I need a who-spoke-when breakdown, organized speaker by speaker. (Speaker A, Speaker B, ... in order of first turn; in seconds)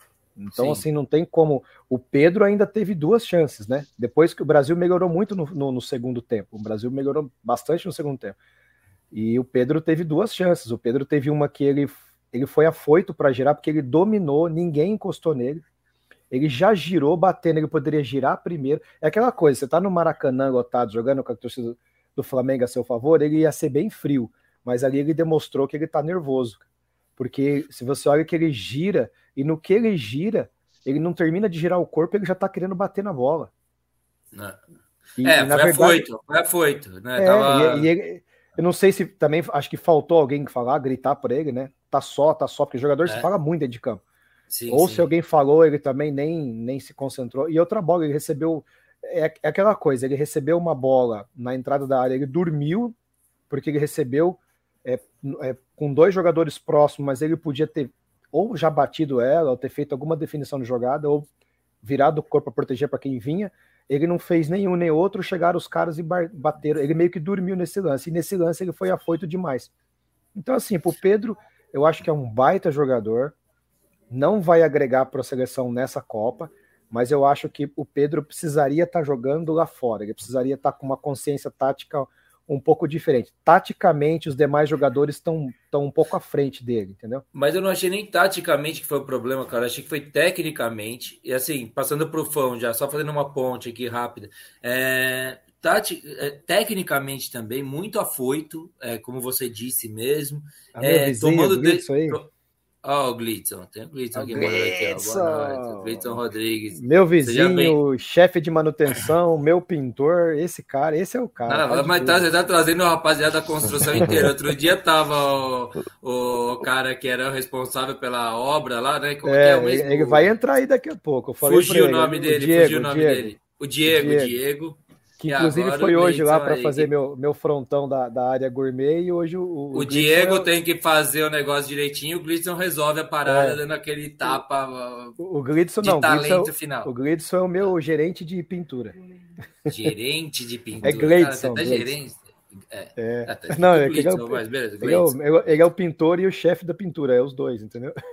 Speaker A: 0.4-8.4, 9.1-15.6, 16.3-26.6, 27.2-33.5, 35.2-36.1, 37.2-44.0, 44.7-53.0, 53.5-61.3, 61.8-69.7, 70.3-73.3, 74.1-87.2, 100.8-102.2, 104.2-106.2, 106.8-112.2, 119.2-123.3, 123.8-124.3, 125.2-130.5, 133.2-133.6, 135.2-139.0, 140.8-141.9, 143.0-148.0
Speaker B: 0.5-0.8, 34.3-34.6, 35.2-37.9, 44.5-45.1, 87.3-102.3, 102.8-107.8, 111.5-120.3, 121.4-126.9, 129.7-135.2, 135.8-136.9, 139.7-145.2